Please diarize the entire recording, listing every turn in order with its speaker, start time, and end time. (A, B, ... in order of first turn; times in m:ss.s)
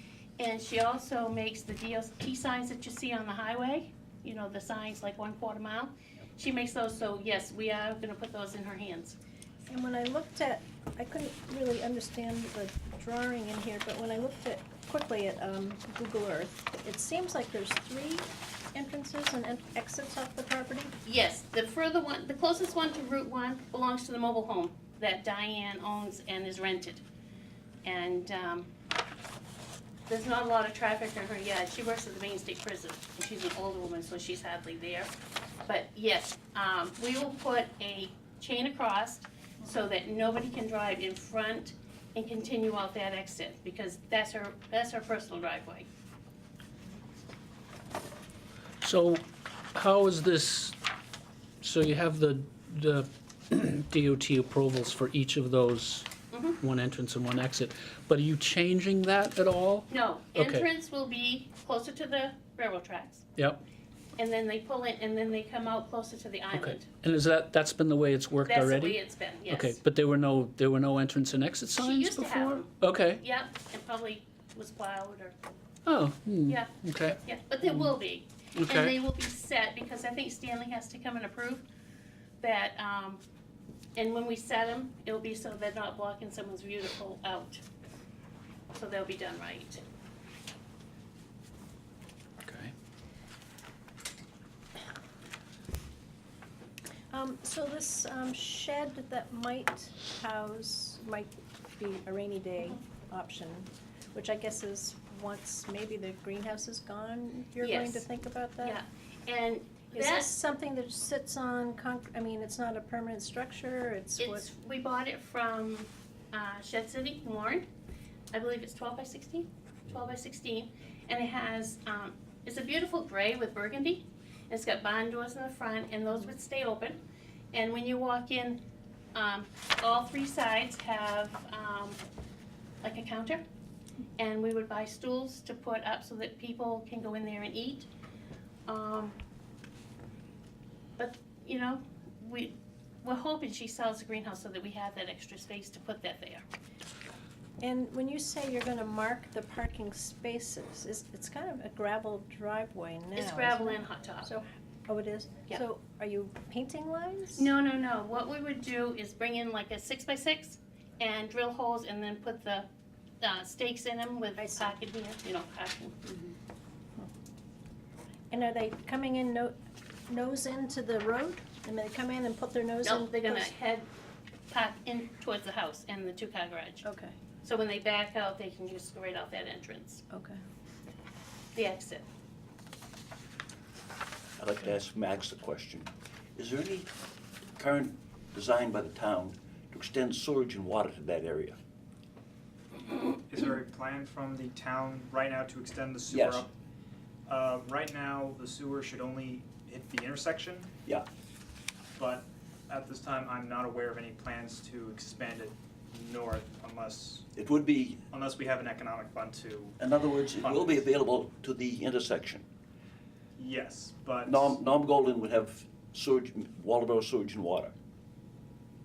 0:00.4-0:09.2 A
0:09.7-0:21.0 B
0:21.0-0:27.0 A
0:27.8-0:28.7 A
0:30.1-0:35.1 A
0:35.7-0:45.9 A
0:48.8-0:49.2 C
0:49.8-0:50.8 C
0:51.6-1:00.7 C
0:56.3-0:56.6 A
0:59.9-1:03.3 A
1:04.2-1:06.9 A
1:06.5-1:13.2 C
1:08.4-1:09.8 A
1:11.8-1:15.4 A
1:15.9-1:17.9 C
1:16.5-1:21.6 A
1:18.6-1:19.0 C
1:22.4-1:23.2 A
1:24.0-1:27.6 A
1:28.7-1:29.8 A
1:32.4-1:32.7 C
1:37.1-1:48.8 B
1:47.6-1:48.0 A
1:48.6-1:50.4 A
1:49.9-1:54.4 B
1:54.2-1:57.7 A
1:58.3-2:07.0 A
2:07.5-2:08.6 A
2:09.2-2:12.0 A
2:12.8-2:13.4 A
2:14.2-2:17.9 A
2:18.7-2:19.2 A
2:21.0-2:26.4 A
2:27.6-2:37.5 B
2:33.2-2:34.3 A
2:37.4-2:42.7 A
2:43.2-2:46.3 A
2:44.4-2:44.7 B
2:48.3-2:49.6 B
2:50.1-2:53.5 B
2:52.8-2:53.9 A
2:54.5-2:56.8 A
2:56.8-2:57.2 B
2:57.4-3:00.0 A
3:00.1-3:00.4 B
3:01.6-3:02.1 A
3:04.4-3:06.9 D
3:07.6-3:11.6 D
3:13.1-3:16.5 E
3:16.1-3:16.5 D
3:17.3-3:20.7 E
3:22.0-3:27.3 E
3:27.3-3:28.0 D
3:28.1-3:29.8 E
3:29.8-3:32.4 D
3:30.4-3:30.8 E
3:33.4-3:34.6 E
3:34.2-3:37.7 D